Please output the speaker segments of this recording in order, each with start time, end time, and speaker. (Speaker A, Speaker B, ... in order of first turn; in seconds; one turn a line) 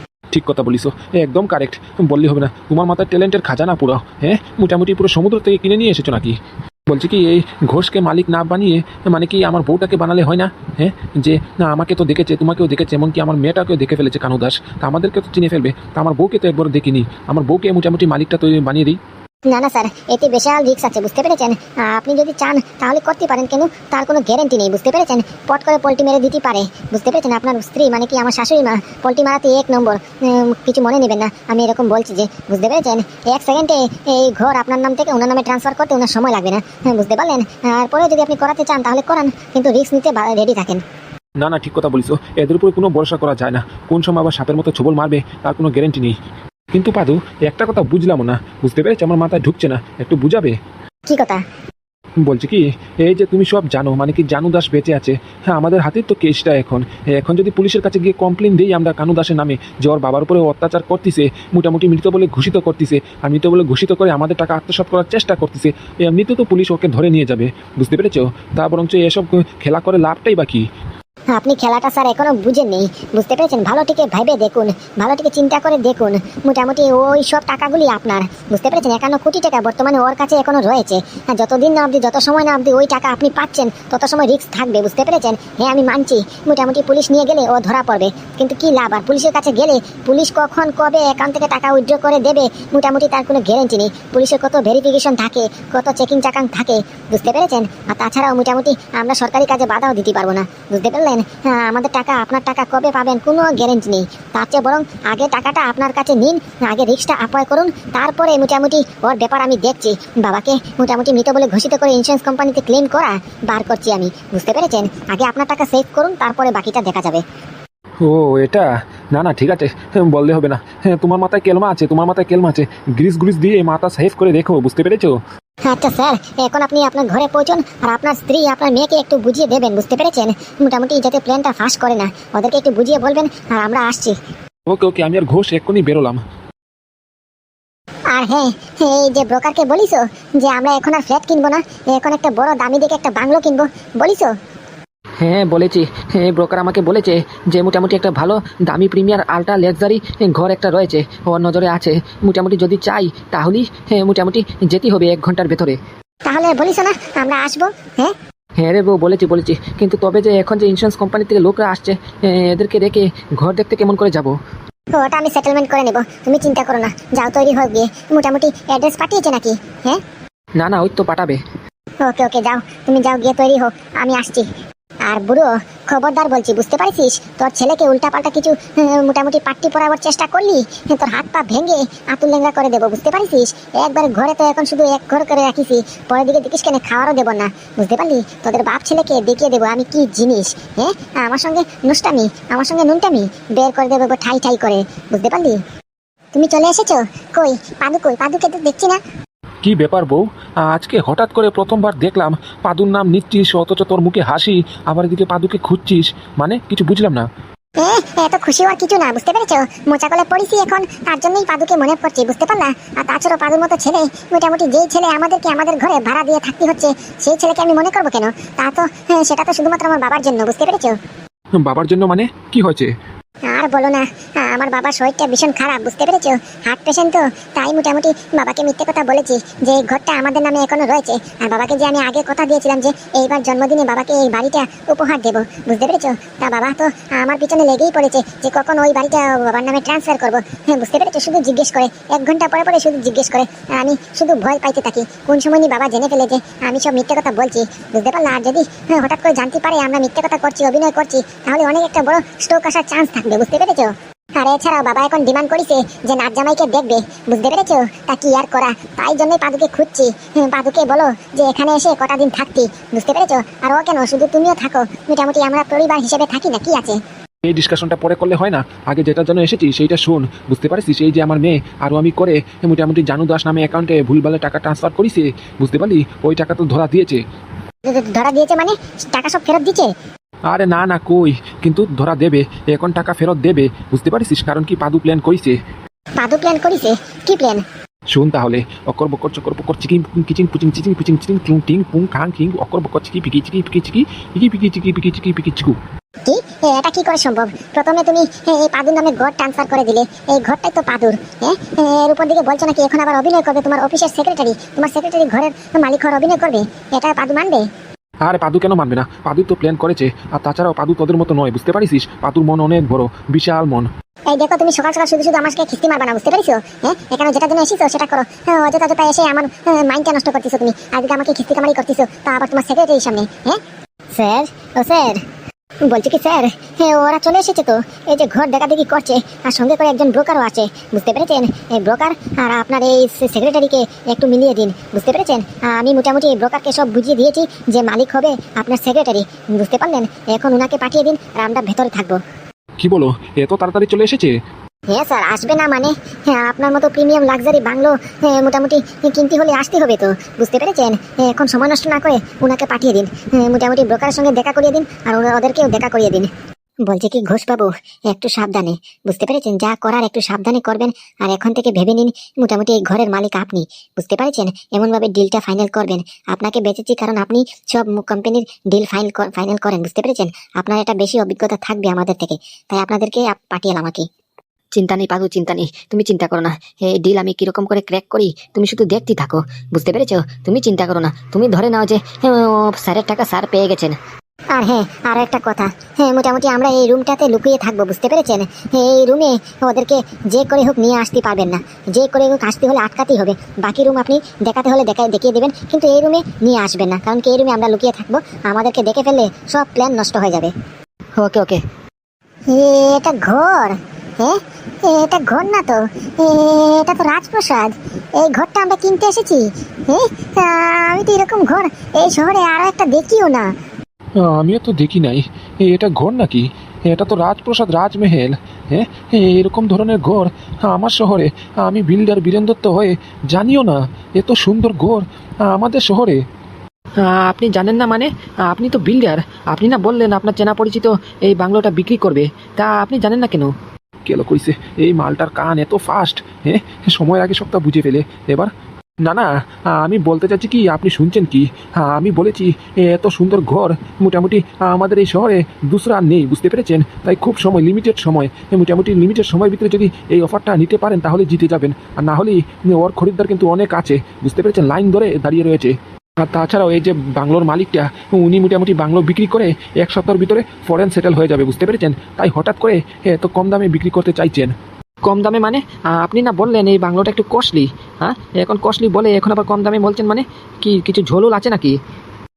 Speaker A: 0.3-6.4
Speaker A: 6.9-19.0
Speaker B: 19.5-40.8
Speaker A: 41.4-46.1
Speaker A: 46.7-50.5
Speaker B: 51.1-51.4
Speaker A: 52.2-70.6
Speaker B: 71.3-117.2
Speaker A: 118.0-125.2
Speaker B: 125.7-134.2
Speaker A: 134.7-136.2
Speaker B: 138.1-144.3
Speaker C: 145.2-155.8
Speaker B: 156.3-158.1
Speaker C: 158.6-164.3
Speaker B: 164.9-170.0
Speaker C: 170.6-171.4
Speaker B: 172.0-174.5
Speaker B: 175.1-195.6
Speaker B: 196.3-199.0
Speaker A: 199.6-207.3
Speaker B: 207.8-221.0
Speaker A: 221.6-222.9
Speaker B: 223.5-267.0
Speaker A: 267.4-277.2
Speaker B: 277.9-279.9
Speaker A: 280.5-285.6
Speaker B: 286.2-287.6
Speaker A: 288.1-295.8
Speaker B: 296.3-307.7
Speaker A: 308.2-313.9
Speaker B: 314.3-323.6
Speaker B: 324.1-325.2
Speaker B: 325.9-342.2
Speaker A: 342.8-344.3
Speaker B: 344.9-356.3
Speaker B: 356.9-374.1
Speaker D: 374.8-384.0
Speaker B: 384.6-400.5
Speaker D: 401.2-401.6
Speaker B: 402.5-413.5
Speaker A: 414.2-426.2
Speaker C: 427.0-433.5
Speaker A: 434.1-438.5
Speaker A: 439.1-455.7
Speaker A: 456.2-464.5
Speaker C: 465.1-471.8